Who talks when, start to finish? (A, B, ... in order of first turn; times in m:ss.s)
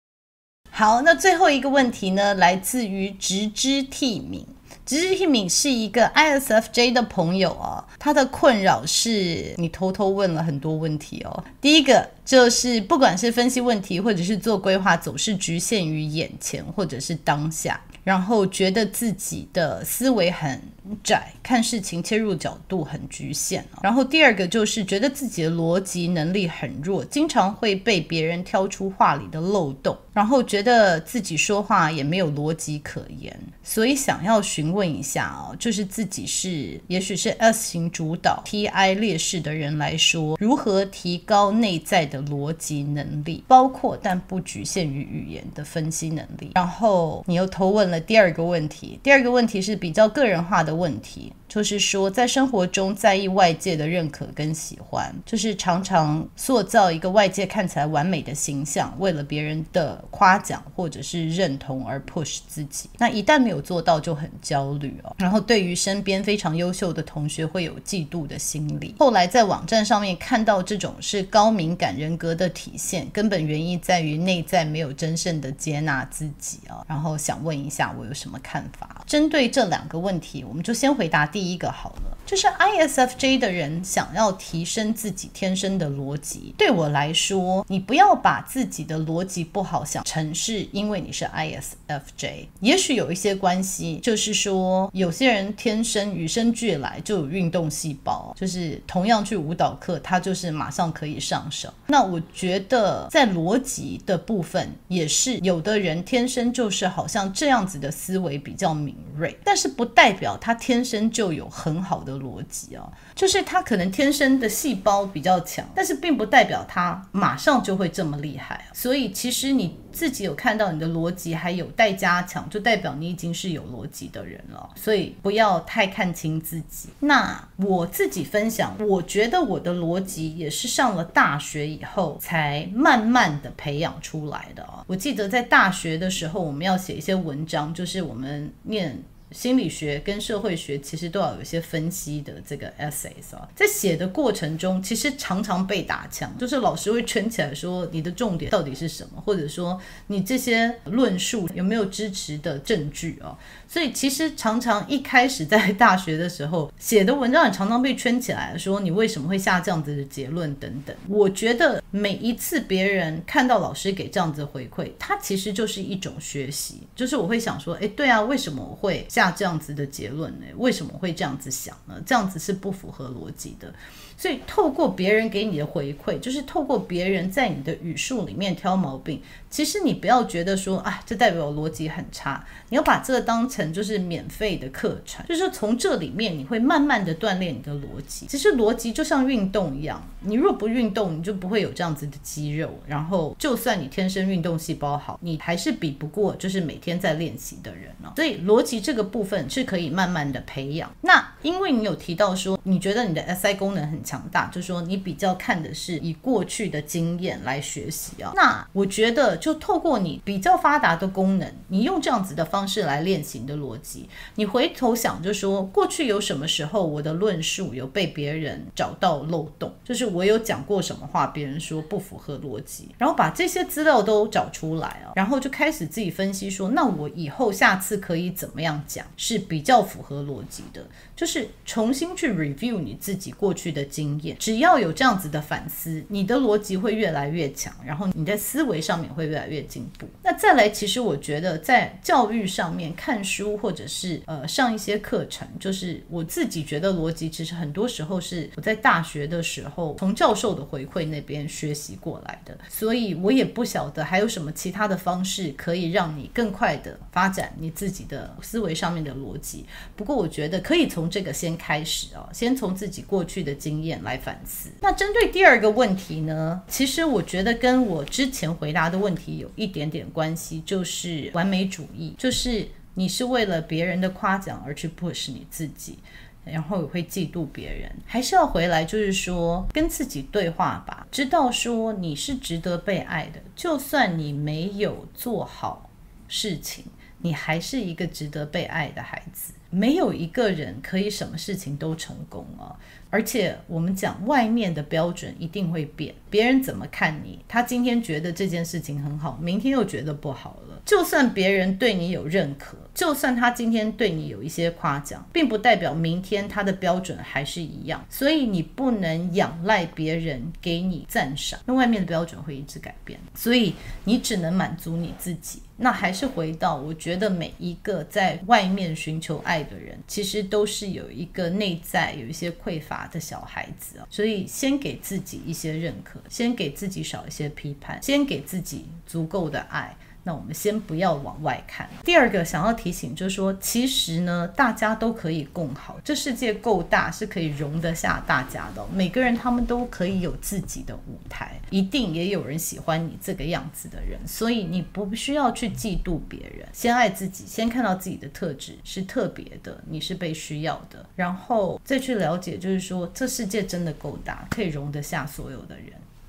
0:00.7-5:56.0 A